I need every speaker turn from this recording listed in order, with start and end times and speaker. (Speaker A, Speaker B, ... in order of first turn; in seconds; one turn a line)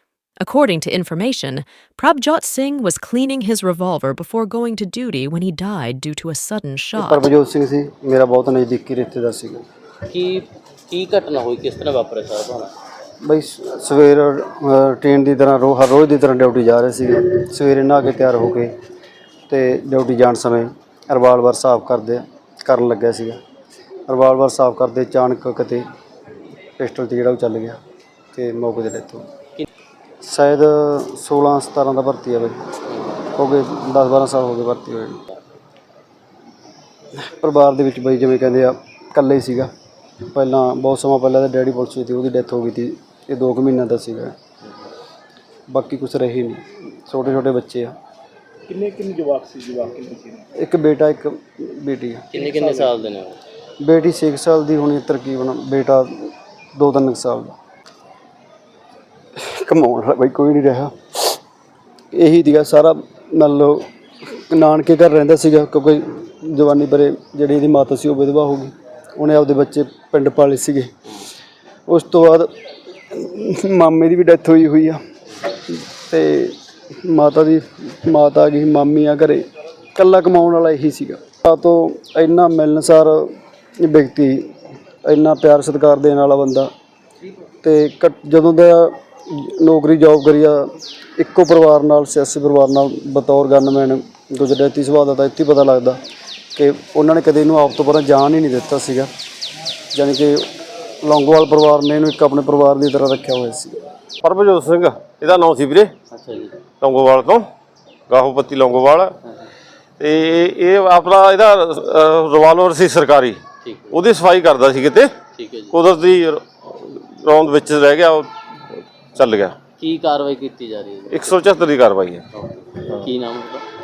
Speaker A: 0.4-7.3
Speaker B: 7.0-9.6
Speaker C: 10.1-12.7
Speaker B: 13.2-18.7
Speaker B: 19.5-23.4
Speaker B: 24.1-25.8
Speaker B: 26.8-27.8
Speaker B: 28.3-29.2
Speaker B: 30.2-32.6
Speaker B: 33.3-35.2
Speaker B: 37.2-39.7
Speaker B: 40.3-44.3
Speaker B: 45.7-47.9
Speaker D: 48.7-50.4
Speaker B: 50.5-52.3
Speaker C: 52.3-53.4
Speaker D: 52.4-52.9
Speaker B: 53.8-57.6
Speaker B: 59.4-60.9
Speaker B: 62.1-70.9
Speaker B: 71.9-72.5
Speaker B: 73.1-75.0
Speaker B: 75.7-84.5
Speaker B: 85.0-86.7
Speaker B: 87.6-90.7
Speaker B: 91.2-96.0
Speaker B: 96.5-99.1
Speaker B: 99.9-100.5
Speaker B: 101.0-103.8
Speaker E: 104.2-105.9
Speaker C: 106.1-106.6
Speaker E: 106.8-107.5
Speaker E: 108.1-109.1
Speaker E: 110.0-115.1
Speaker C: 113.6-114.0
Speaker C: 115.3-115.8
Speaker E: 115.7-119.6
Speaker C: 119.8-121.4
Speaker E: 121.1-122.2
Speaker C: 122.3-123.7